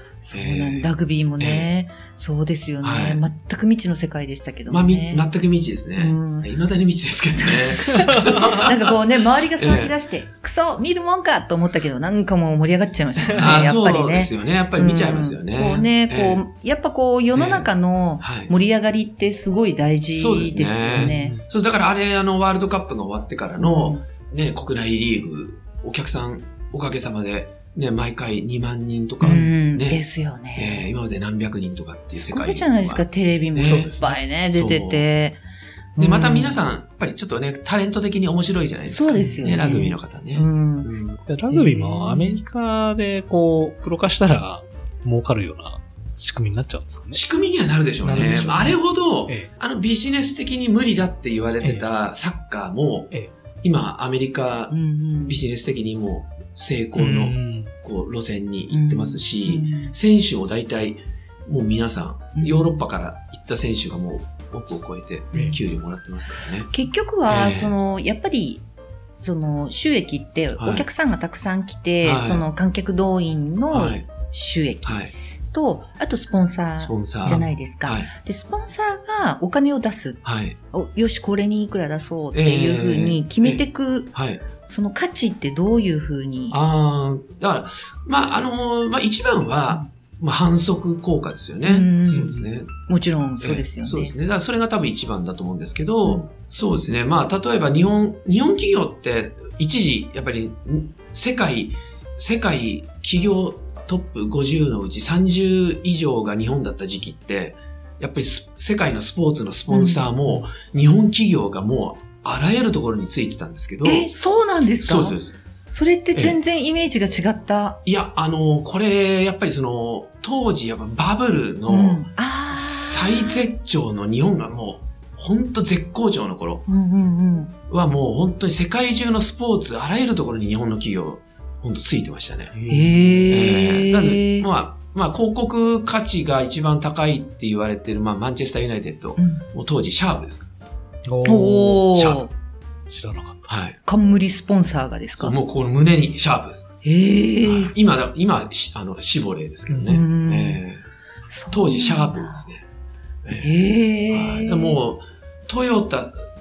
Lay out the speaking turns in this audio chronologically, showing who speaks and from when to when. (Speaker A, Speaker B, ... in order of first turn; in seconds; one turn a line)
Speaker A: 0.2-5.3
Speaker B: 0.3-1.7
Speaker B: 2.8-3.2
Speaker B: 4.7-9.0
Speaker A: 6.0-6.5
Speaker A: 7.3-21.4
Speaker B: 9.6-9.9
Speaker C: 13.2-13.6
Speaker B: 13.4-16.4
Speaker B: 17.3-18.5
Speaker B: 20.1-30.0
Speaker C: 20.9-21.4
Speaker A: 23.6-24.0
Speaker A: 29.2-30.8
Speaker B: 30.5-33.9
Speaker A: 32.2-35.4
Speaker C: 33.6-34.2
Speaker B: 34.5-35.1
Speaker A: 36.0-36.6
Speaker B: 36.0-41.2
Speaker A: 38.9-41.0
Speaker C: 41.3-47.2
Speaker A: 41.5-42.4
Speaker B: 47.1-66.7
Speaker C: 48.0-49.5
Speaker A: 48.4-48.7
Speaker C: 51.6-51.9
Speaker A: 54.7-55.4
Speaker C: 57.0-57.7
Speaker A: 58.7-59.9
Speaker A: 62.4-62.8
Speaker A: 66.7-68.6
Speaker B: 67.3-67.7
Speaker A: 69.2-75.0
Speaker B: 70.6-70.9
Speaker B: 72.0-72.5
Speaker B: 73.7-74.1
Speaker B: 74.8-75.1
Speaker A: 75.5-80.2
Speaker B: 76.8-78.1
Speaker B: 80.2-80.6
Speaker A: 80.7-84.1
Speaker B: 82.3-84.4
Speaker A: 84.7-86.6
Speaker B: 86.5-92.7
Speaker A: 91.7-94.1
Speaker B: 93.4-114.1
Speaker A: 109.7-110.1
Speaker A: 113.8-115.2
Speaker B: 114.8-115.3
Speaker A: 115.7-117.8
Speaker B: 117.8-126.7
Speaker A: 121.7-123.5
Speaker A: 126.7-127.5
Speaker B: 127.7-132.5
Speaker C: 132.5-133.3
Speaker A: 132.7-134.5
Speaker B: 133.3-140.5
Speaker A: 139.2-139.4
Speaker C: 141.1-141.8
Speaker A: 141.2-142.3
Speaker B: 141.9-142.3
Speaker C: 142.9-143.5
Speaker B: 143.5-143.8
Speaker A: 143.9-145.4
Speaker B: 145.2-146.7
Speaker A: 146.8-147.7
Speaker B: 147.4-150.8
Speaker C: 149.7-150.0
Speaker A: 149.9-150.6
Speaker A: 151.3-152.4
Speaker B: 151.5-152.6
Speaker B: 153.2-153.6
Speaker A: 153.4-154.8
Speaker B: 154.1-156.2